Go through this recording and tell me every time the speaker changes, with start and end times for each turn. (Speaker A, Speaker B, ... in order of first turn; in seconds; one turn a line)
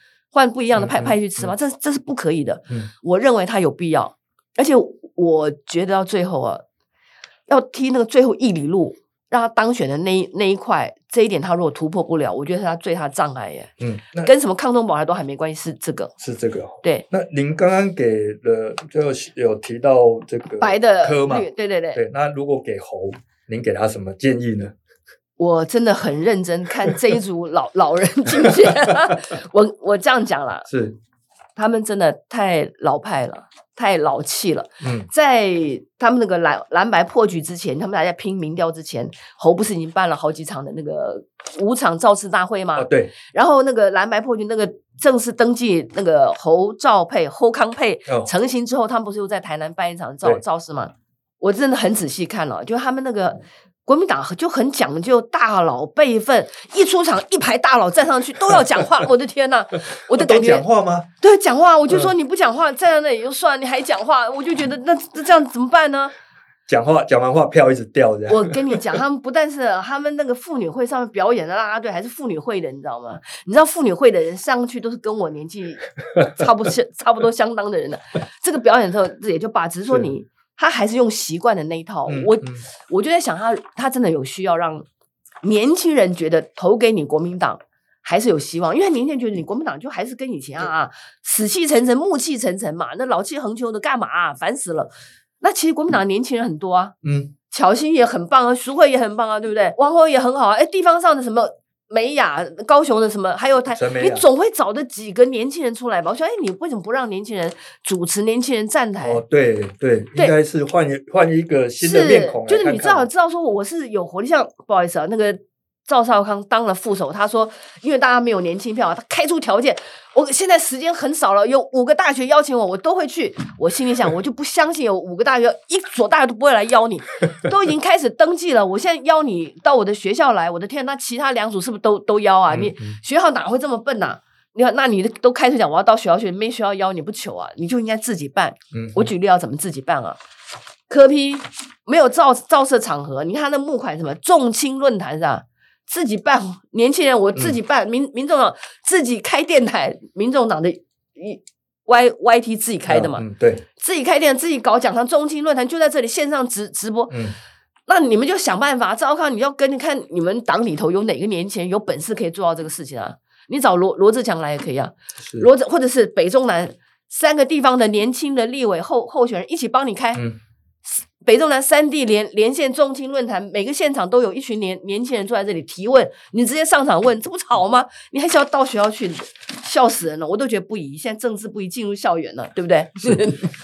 Speaker A: 0.3-6.6
Speaker B: 0.7-1.5
Speaker A: 7.5-16.1
Speaker B: 13.8-14.3
Speaker B: 16.2-24.7
Speaker A: 20.6-22.0
Speaker A: 25.4-30.7
Speaker B: 28.4-28.7
Speaker B: 30.7-31.0
Speaker A: 31.6-60.6
Speaker B: 34.8-35.1
Speaker B: 42.8-43.1
Speaker B: 58.5-58.8
Speaker B: 60.0-61.1
Speaker A: 61.2-66.1
Speaker B: 66.7-68.8
Speaker A: 68.3-84.8
Speaker B: 82.1-82.7
Speaker A: 85.4-96.9
Speaker B: 97.0-97.3
Speaker A: 97.5-109.2
Speaker B: 103.7-104.2
Speaker B: 109.0-113.1
Speaker A: 111.8-140.2
Speaker B: 132.5-133.0
Speaker B: 138.7-139.1
Speaker A: 140.9-153.2
Speaker B: 152.9-153.6
Speaker A: 153.8-157.2
Speaker B: 157.1-157.3
Speaker A: 157.9-170.2
Speaker B: 165.2-165.5
Speaker A: 170.9-183.5
Speaker B: 183.0-183.3